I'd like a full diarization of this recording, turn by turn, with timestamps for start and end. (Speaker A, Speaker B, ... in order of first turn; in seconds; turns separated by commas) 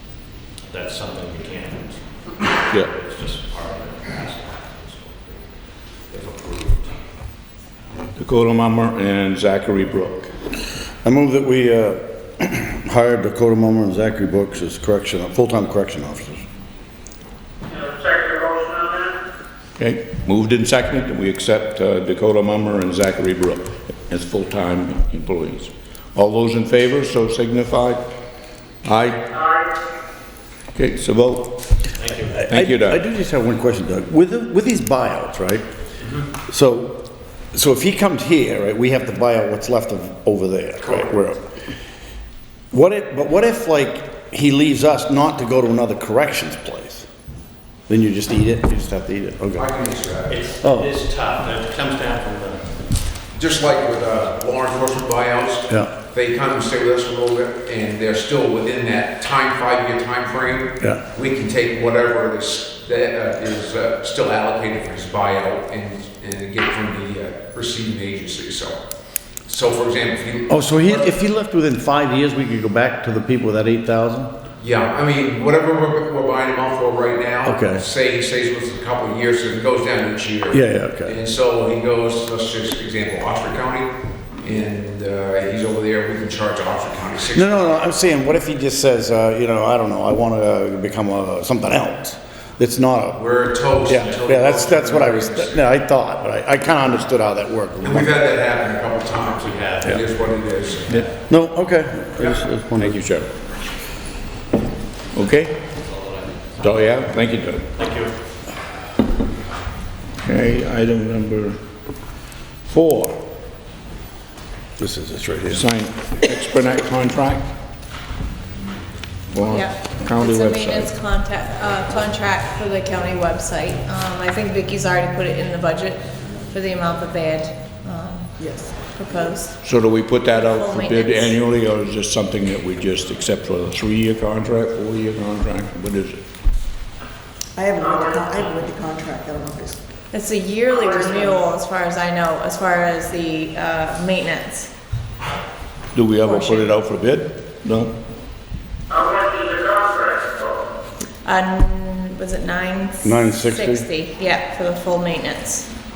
Speaker A: 0.6-7.0, Speaker B: 8.2-10.3, Speaker C: 11.0-16.4, Speaker D: 17.7-19.1, Speaker B: 19.8-28.0, Speaker B: 28.8-29.2, Speaker D: 29.3-29.7, Speaker B: 30.7-31.6, Speaker A: 31.9-32.5, Speaker C: 32.3-35.6, Speaker B: 32.5-33.0, Speaker C: 36.5-41.4, Speaker E: 40.8-41.1, Speaker C: 42.7-47.0, Speaker C: 47.9-49.6, Speaker E: 49.5-50.4, Speaker A: 50.3-52.7, Speaker C: 50.6-50.9, Speaker E: 53.3-68.8, Speaker E: 69.5-71.1, Speaker C: 70.5-74.3, Speaker E: 74.6-87.8, Speaker C: 77.4-77.8, Speaker C: 80.5-81.1, Speaker C: 87.3-93.2, Speaker E: 93.1-95.7, Speaker C: 93.8-98.1, Speaker A: 93.9-94.2, Speaker E: 97.8-101.0, Speaker A: 99.1-101.1, Speaker C: 101.3-103.0, Speaker B: 102.8-103.3, Speaker B: 105.1-105.6, Speaker A: 105.7-106.8, Speaker B: 106.6-107.6, Speaker A: 107.7-108.1, Speaker B: 110.2-111.5, Speaker B: 112.7-113.2, Speaker C: 114.8-115.6, Speaker B: 115.5-117.4, Speaker B: 119.3-120.9, Speaker F: 119.4-129.6, Speaker G: 128.4-128.9, Speaker B: 129.6-136.2, Speaker F: 130.3-131.4, Speaker G: 137.6-139.8, Speaker D: 137.8-138.2, Speaker F: 140.1-144.7, Speaker G: 140.7-141.2, Speaker B: 145.9-147.9, Speaker F: 146.2-146.7, Speaker D: 148.9-150.6, Speaker F: 151.2-155.7, Speaker C: 153.0-153.8